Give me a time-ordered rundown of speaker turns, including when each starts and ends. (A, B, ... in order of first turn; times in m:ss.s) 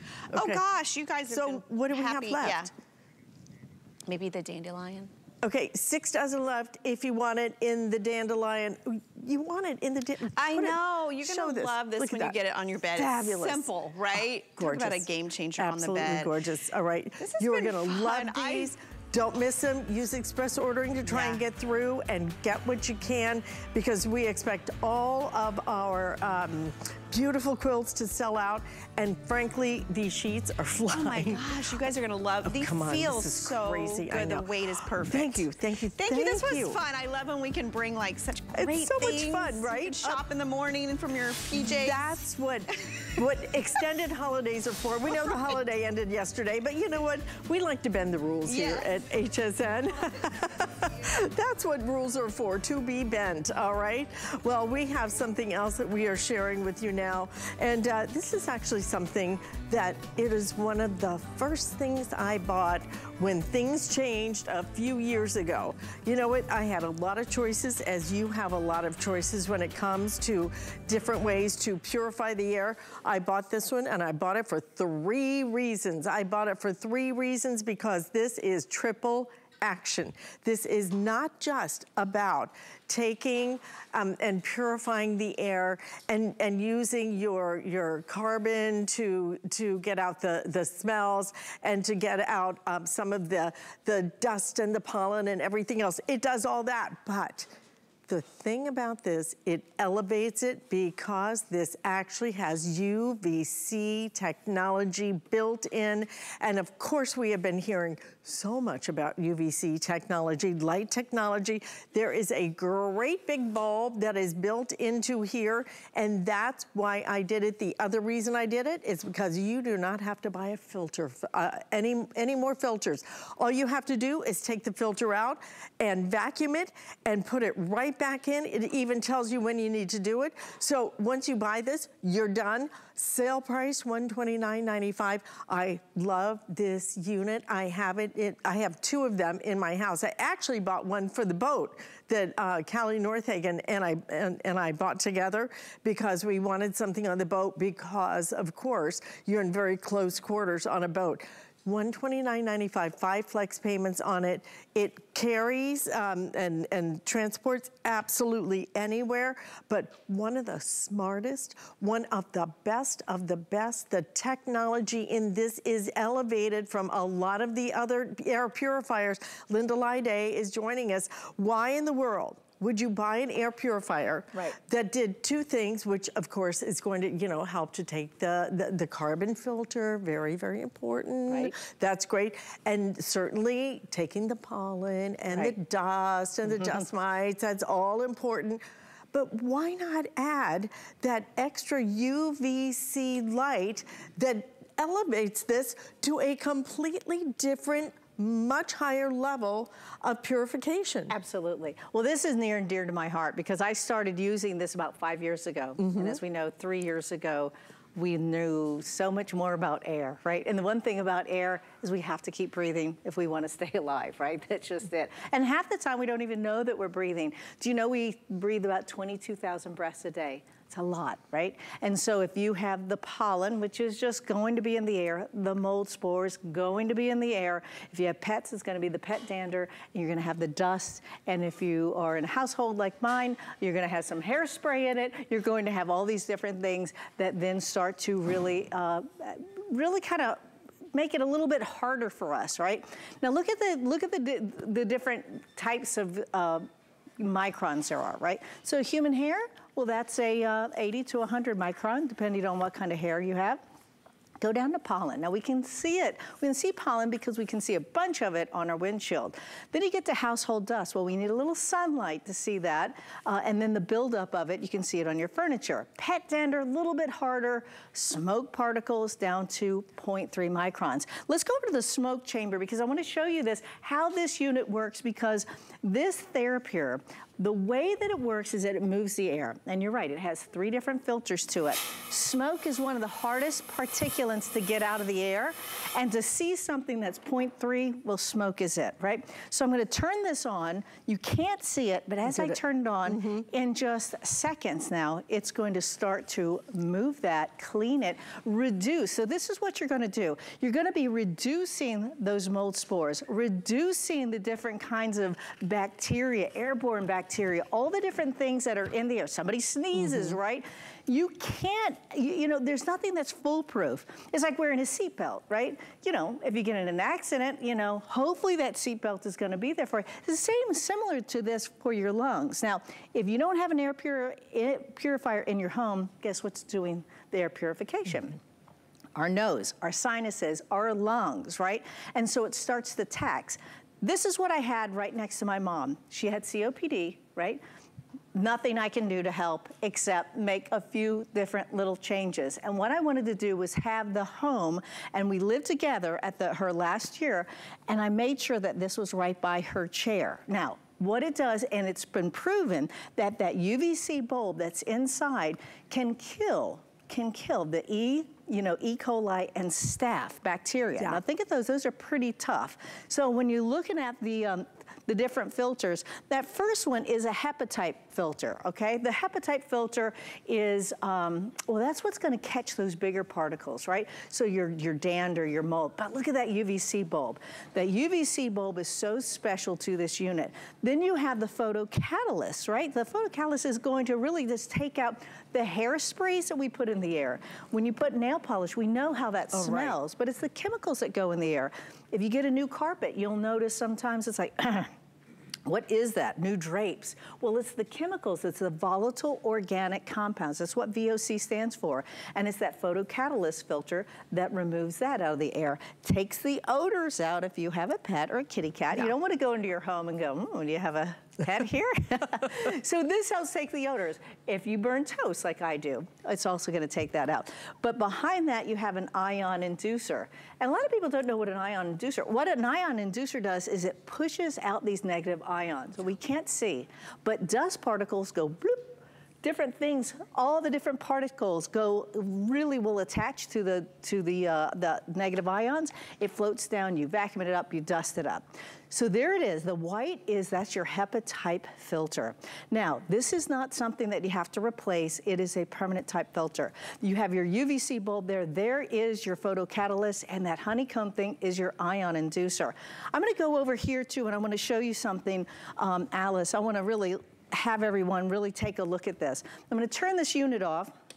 0:00.3-0:02.7 A
0:00.3-0:00.6 B
0:01.3-0:02.7 B
0:04.0-0:05.1 A
0:05.4-0:12.4 B
0:10.3-0:16.3 A
0:12.9-0:15.1 B
0:15.6-0:31.6 B
0:17.2-0:18.7 A
0:21.1-0:21.4 A
0:30.9-0:42.0 A
0:32.4-0:36.8 B
0:38.5-0:40.2 B
0:41.5-1:37.5 B
0:48.4-0:49.0 A
1:38.1-3:21.1 B
3:01.3-3:01.5 C
3:21.1-4:00.4 C
3:25.9-3:26.2 B
4:00.9-4:06.7 C
4:07.2-4:13.6 C
4:14.4-5:28.4 C
4:52.2-4:53.4 B
5:10.0-5:10.3 B
5:29.1-5:37.6 C
5:38.3-6:34.9 C
6:29.5-6:30.0 B
6:35.6-7:40.9 C